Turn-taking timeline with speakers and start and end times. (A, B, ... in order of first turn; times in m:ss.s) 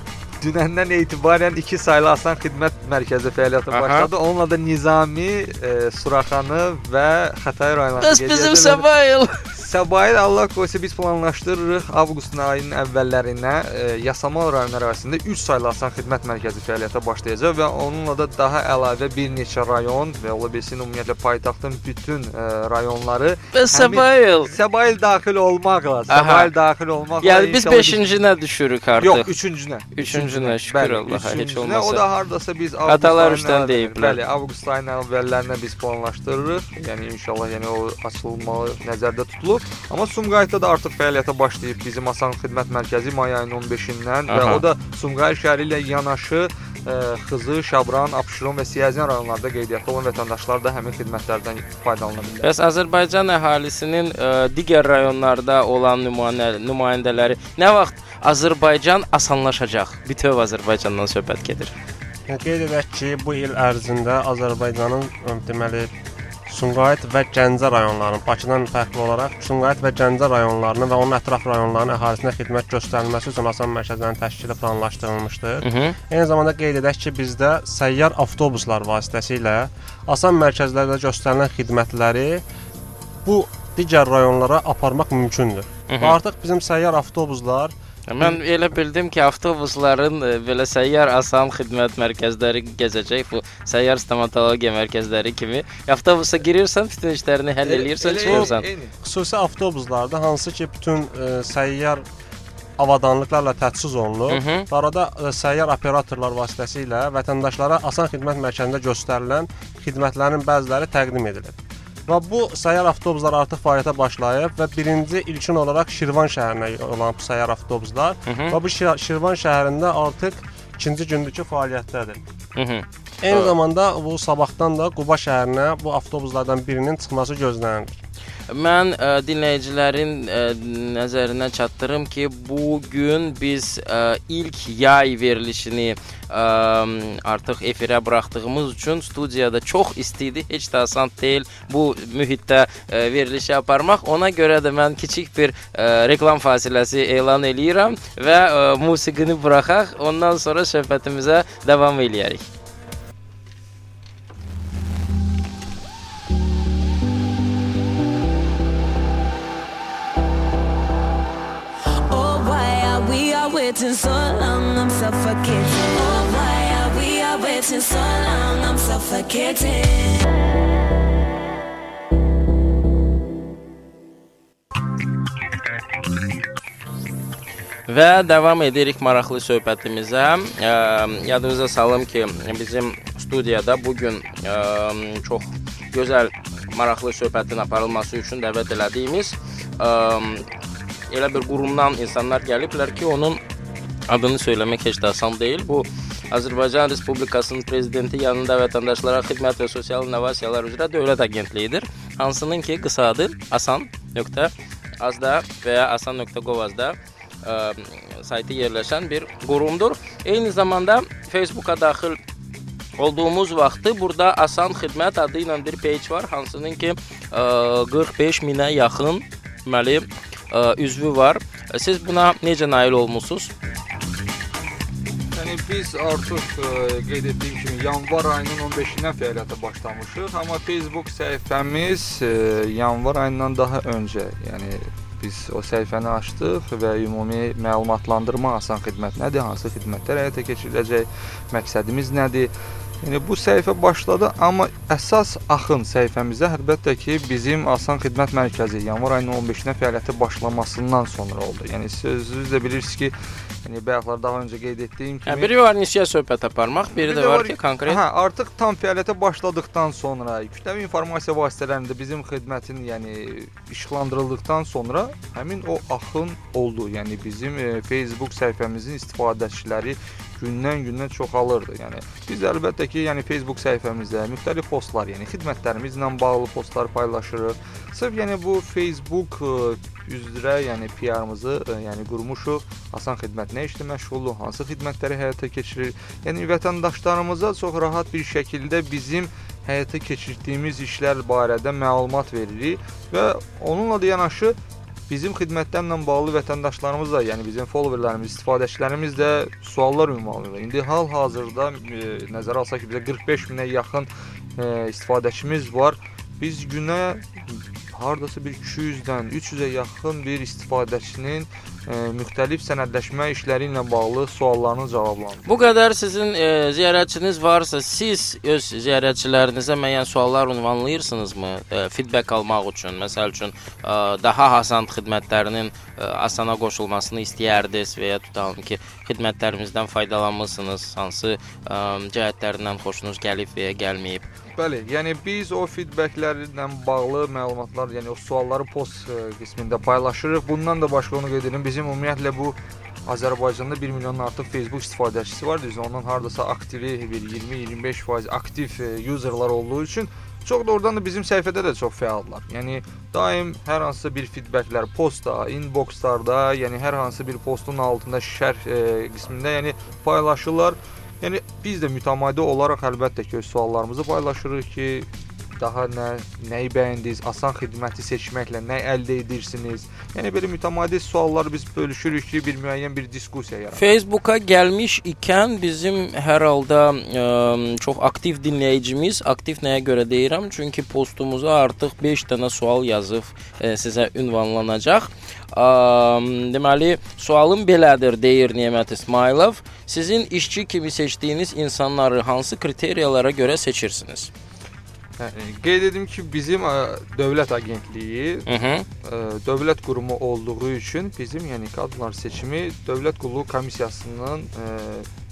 0:00.4-0:08.8 A
0:03.7-0:04.1 B
0:08.0-0:09.4 B
0:09.5-0:28.1 A
0:23.5-0:24.5 B
0:26.1-0:26.5 B
0:27.2-0:29.3 B
0:29.0-0:52.5 A
0:29.9-0:32.0 B
0:32.9-0:34.2 B
0:44.3-0:44.6 B
0:52.4-1:01.7 B
1:02.3-1:05.9 C
1:06.5-1:22.4 C
1:15.6-1:16.0 B
1:23.2-1:27.7 C
1:25.9-1:26.2 B
1:28.1-1:38.6 B
1:37.6-1:38.9 A
1:38.3-1:42.0 C
1:42.8-2:02.2 C
1:44.3-1:44.7 B
1:58.3-1:58.6 B
2:02.6-2:03.5 B
2:03.2-2:08.0 C
2:08.5-2:32.4 B
2:42.1-2:50.2 D
2:57.9-3:10.4 B
3:11.1-3:13.4 B
3:14.1-3:32.2 B
3:33.0-3:43.5 B
3:45.4-4:02.5 A
4:03.0-4:13.1 A
4:13.6-4:15.5 A
4:15.3-4:18.0 B
4:16.9-4:54.6 A
4:55.1-5:15.5 A
5:15.4-5:34.3 B
5:34.6-6:05.1 A
6:05.6-6:13.8 A
6:13.8-6:34.3 B
6:35.2-6:38.5 A
6:38.5-6:38.8 B
6:39.0-6:45.1 A